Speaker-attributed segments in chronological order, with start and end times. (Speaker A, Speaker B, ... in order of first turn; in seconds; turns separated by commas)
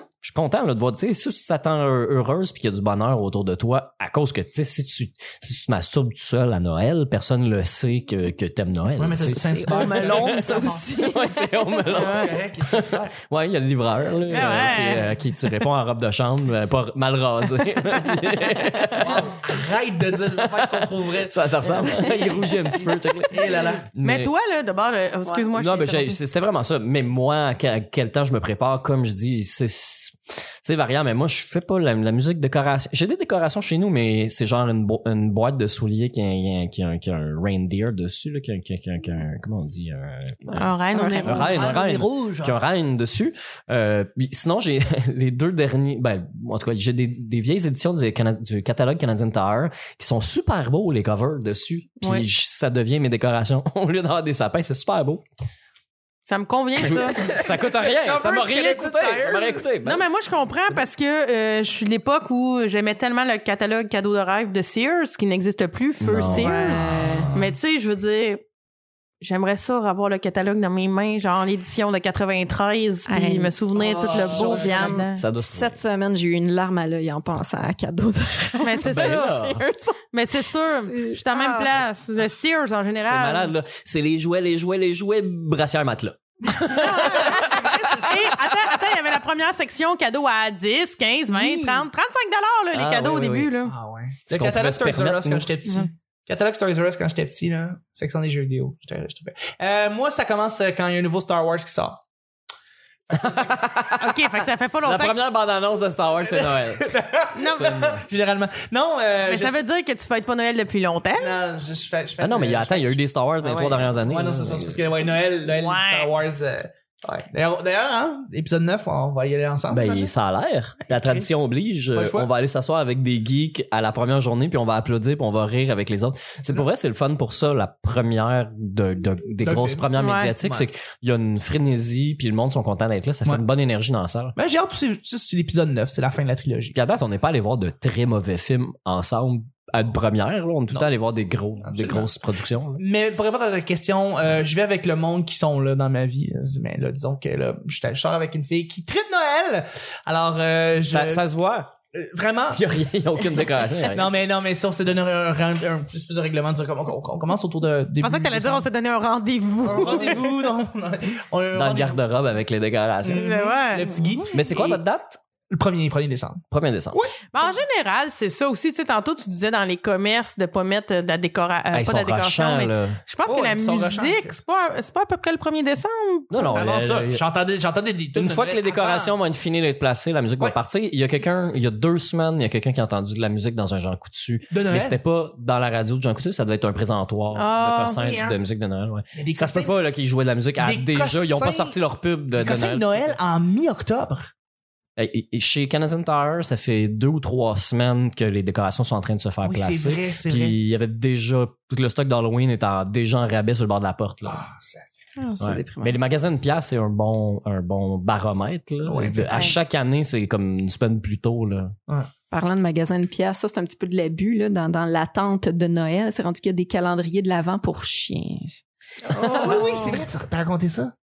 Speaker A: 0.2-19.5, Speaker B: 8.9-10.8, Speaker C: 9.2-12.3, Speaker B: 11.9-13.1, Speaker D: 14.3-15.2, Speaker C: 18.6-19.1, Speaker B: 19.0-22.1, Speaker A: 20.4-24.3, Speaker C: 21.8-22.8, Speaker B: 23.3-23.9, Speaker D: 24.0-26.2, Speaker A: 25.5-40.7, Speaker C: 40.5-41.5, Speaker D: 40.5-41.7, Speaker B: 41.2-42.6, Speaker A: 41.2-55.2, Speaker D: 52.0-52.3, Speaker D: 56.2-57.3, Speaker A: 56.8-60.0, Speaker B: 57.8-59.7, Speaker D: 59.8-68.4, Speaker A: 66.0-66.8, Speaker C: 66.3-67.3, Speaker B: 66.9-67.5, Speaker D: 69.2-75.2, Speaker C: 73.1-73.5, Speaker B: 73.7-75.0, Speaker C: 74.2-81.7, Speaker A: 75.1-75.8, Speaker D: 78.6-79.3, Speaker A: 78.8-79.6, Speaker D: 80.1-83.5, Speaker A: 83.0-87.9, Speaker D: 86.7-93.7, Speaker B: 86.8-88.5, Speaker C: 91.3-91.8, Speaker A: 92.7-93.5, Speaker B: 93.6-102.0, Speaker A: 94.3-95.5, Speaker B: 103.1-103.6, Speaker A: 103.1-107.0, Speaker D: 103.9-105.2, Speaker B: 106.2-109.6, Speaker D: 107.3-107.8, Speaker A: 107.5-108.0, Speaker D: 109.2-111.3, Speaker B: 111.2-113.0, Speaker A: 112.2-114.8, Speaker C: 113.4-113.8, Speaker B: 113.9-120.1, Speaker D: 115.5-116.1, Speaker A: 119.7-134.3, Speaker B: 120.8-121.3, Speaker B: 121.9-122.3, Speaker B: 129.4-129.9, Speaker D: 129.9-130.3, Speaker B: 130.4-130.7, Speaker B: 134.3-136.8, Speaker A: 136.7-142.8, Speaker B: 141.6-142.1, Speaker B: 142.8-151.2, Speaker A: 150.9-151.7, Speaker B: 151.9-152.6, Speaker A: 152.5-154.1, Speaker B: 153.9-158.7, Speaker D: 158.0-160.3, Speaker B: 159.6-162.0, Speaker A: 161.5-163.5, Speaker B: 163.0-164.8, Speaker D: 163.1-163.9, Speaker C: 163.8-164.3, Speaker A: 164.3-165.2, Speaker B: 165.5-167.5, Speaker A: 166.5-167.0, Speaker D: 167.3-176.7, Speaker A: 171.7-173.0, Speaker B: 173.2-174.4, Speaker A: 176.3-177.2, Speaker B: 176.5-179.1, Speaker A: 178.1-193.1, Speaker B: 184.5-185.0, Speaker D: 187.3-188.0, Speaker B: 187.9-188.4, Speaker B: 189.1-189.8, Speaker B: 190.6-191.8, Speaker B: 192.3-194.3, Speaker A: 195.0-204.4, Speaker B: 199.4-200.6, Speaker B: 204.2-204.9, Speaker C: 205.2-206.1, Speaker A: 205.4-211.7, Speaker B: 208.8-209.6, Speaker C: 212.3-220.0, Speaker B: 219.1-220.9, Speaker D: 219.1-220.0